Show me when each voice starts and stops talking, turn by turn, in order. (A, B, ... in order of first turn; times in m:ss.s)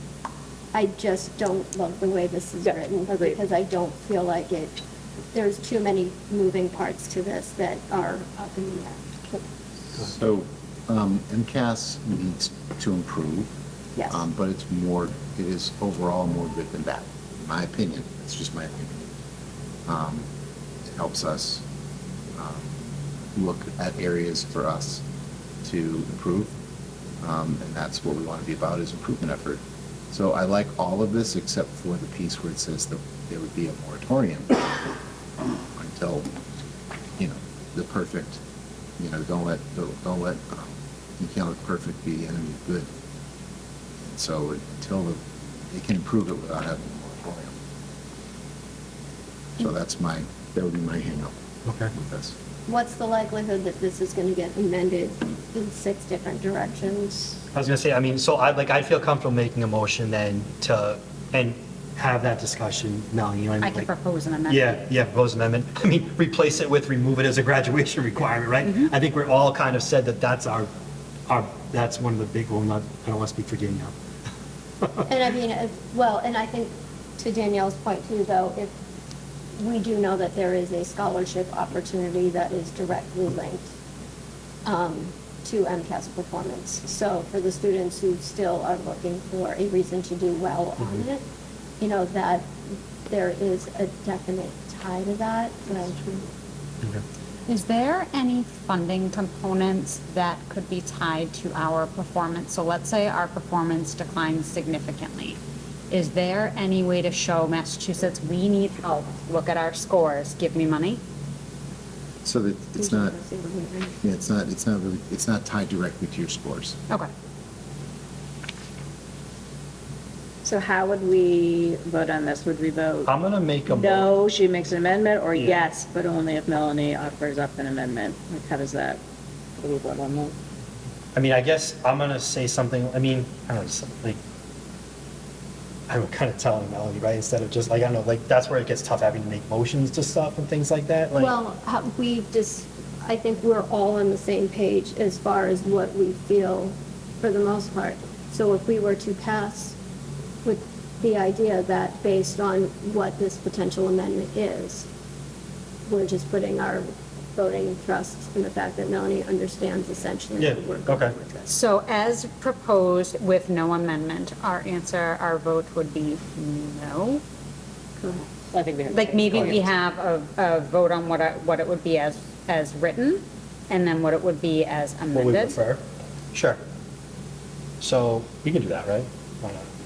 0:00.7-0:04.8 A
0:02.6-0:03.4 B
0:05.3-0:09.4 A
0:09.9-0:13.5 C
0:14.0-0:14.2 A
0:14.1-0:19.1 C
0:19.8-0:20.2 C
0:20.8-0:21.6 C
0:22.3-0:22.8 C
0:23.3-0:25.0 C
0:25.6-0:26.5 C
0:27.2-0:34.9 C
0:35.7-0:36.3 C
0:37.2-0:38.4 C
0:39.0-0:42.9 C
0:44.0-0:47.6 C
0:49.6-0:51.4 C
0:51.6-0:51.9 D
0:51.9-0:52.3 C
0:52.7-0:57.4 A
0:57.5-1:03.9 D
1:03.6-1:04.8 E
1:04.5-1:10.7 D
1:08.6-1:08.9 E
1:11.3-1:13.9 D
1:15.1-1:18.7 A
1:19.6-1:23.7 A
1:24.6-1:31.2 A
1:30.8-1:31.0 D
1:31.8-1:32.5 A
1:33.1-1:36.2 A
1:37.5-1:45.4 E
1:45.9-1:51.0 E
1:52.2-1:53.2 C
1:52.8-1:54.0 A
1:54.0-1:56.8 C
2:00.4-2:03.1 B
2:03.0-2:04.1 D
2:03.7-2:09.0 B
2:05.4-2:05.6 D
2:09.6-2:10.3 B
2:11.1-2:14.2 D
2:15.9-2:21.3 D
2:21.1-2:29.8 A
2:30.4-2:34.9 A
2:35.9-2:41.5 A
2:40.4-2:41.1 D
2:41.5-2:47.2 E
2:48.0-2:48.3 E
2:48.5-2:49.7 B
2:48.9-2:55.6 E
2:55.1-2:56.6 D
2:57.8-2:59.7 D